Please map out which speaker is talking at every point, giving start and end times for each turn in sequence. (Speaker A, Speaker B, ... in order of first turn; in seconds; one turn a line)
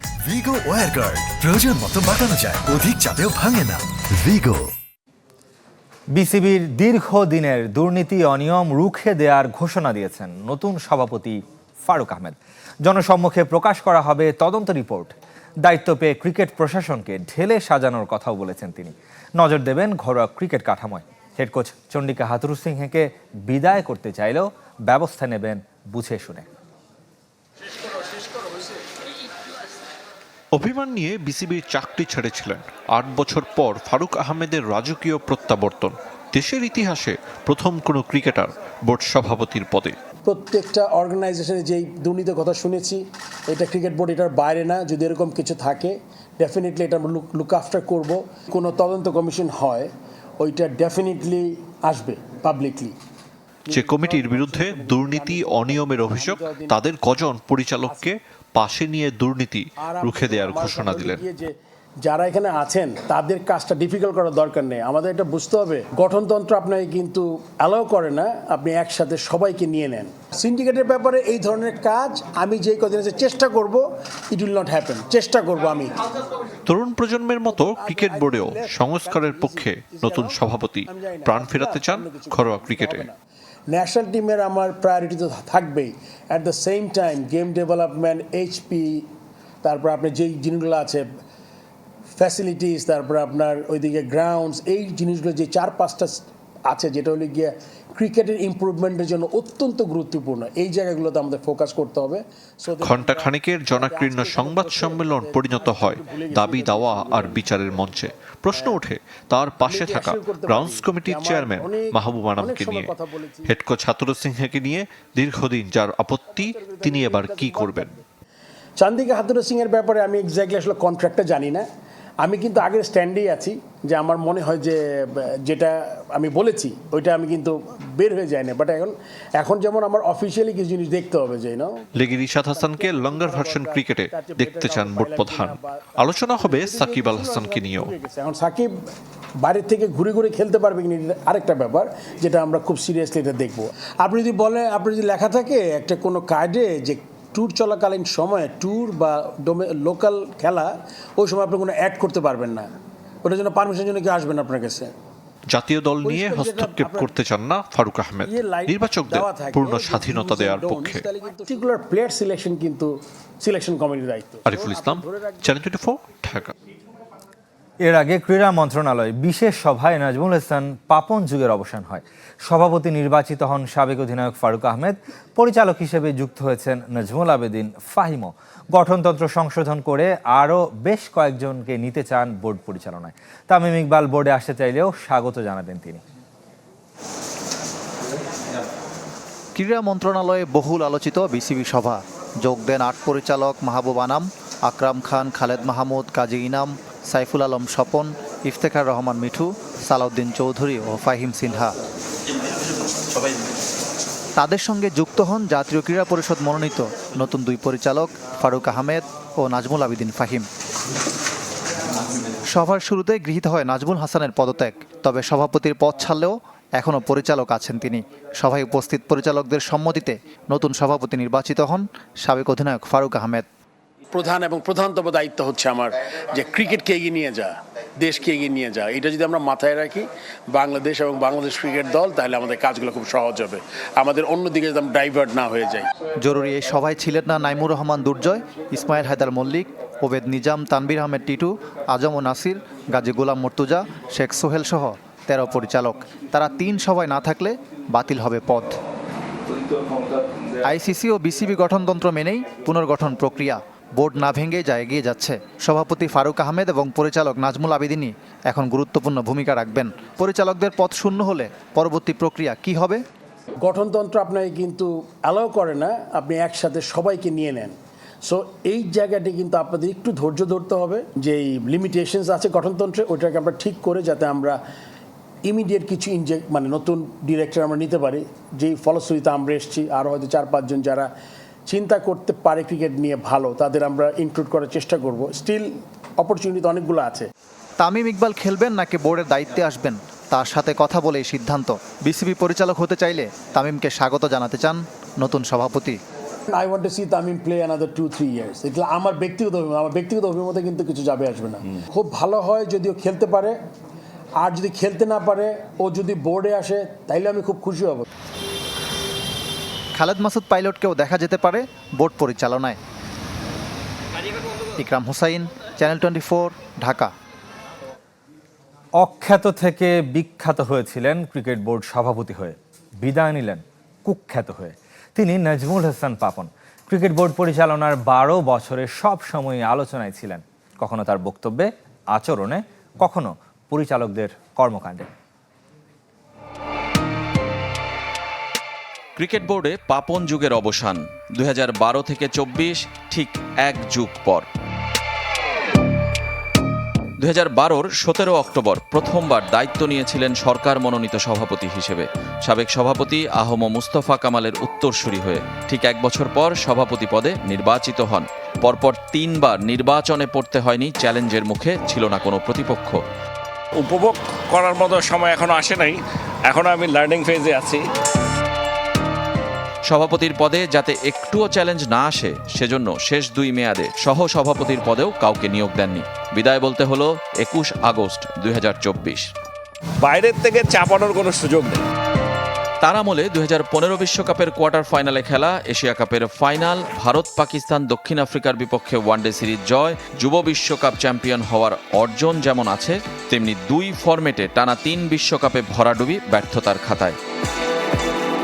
Speaker A: 0.3-1.0
Speaker A: 1.5-3.7
Speaker A: 4.2-4.6
Speaker B: 6.1-26.5
Speaker C: 30.5-40.0
Speaker D: 40.2-49.9
Speaker D: 50.4-52.9
Speaker D: 53.7-56.8
Speaker C: 53.7-61.2
Speaker D: 57.9-58.1
Speaker D: 59.8-75.9
Speaker C: 76.7-83.1
Speaker D: 77.4-83.2
Speaker D: 83.7-89.0
Speaker D: 89.6-91.0
Speaker D: 92.2-107.5
Speaker C: 102.8-118.0
Speaker D: 108.5-108.8
Speaker D: 109.6-113.5
Speaker D: 116.4-118.0
Speaker D: 118.8-121.6
Speaker D: 122.2-138.7
Speaker C: 131.9-137.9
Speaker D: 139.4-152.7
Speaker D: 153.2-154.9
Speaker C: 155.5-161.1
Speaker D: 156.0-157.1
Speaker D: 158.2-165.5
Speaker C: 164.4-166.5
Speaker B: 167.8-186.0
Speaker E: 189.5-201.8
Speaker E: 204.4-210.4
Speaker E: 212.5-223.4
Speaker D: 224.1-235.9
Speaker E: 236.2-248.8
Speaker E: 250.6-263.0
Speaker D: 263.6-267.7
Speaker D: 268.2-274.6
Speaker D: 275.4-281.1
Speaker D: 281.7-287.3
Speaker E: 287.8-296.0
Speaker D: 296.5-303.5
Speaker D: 304.4-308.0
Speaker E: 309.9-312.8
Speaker E: 314.8-317.1
Speaker B: 319.0-335.1
Speaker F: 339.2-344.5
Speaker F: 347.2-363.0
Speaker G: 363.8-367.8
Speaker F: 369.9-379.3
Speaker G: 380.0-381.8
Speaker F: 382.8-397.1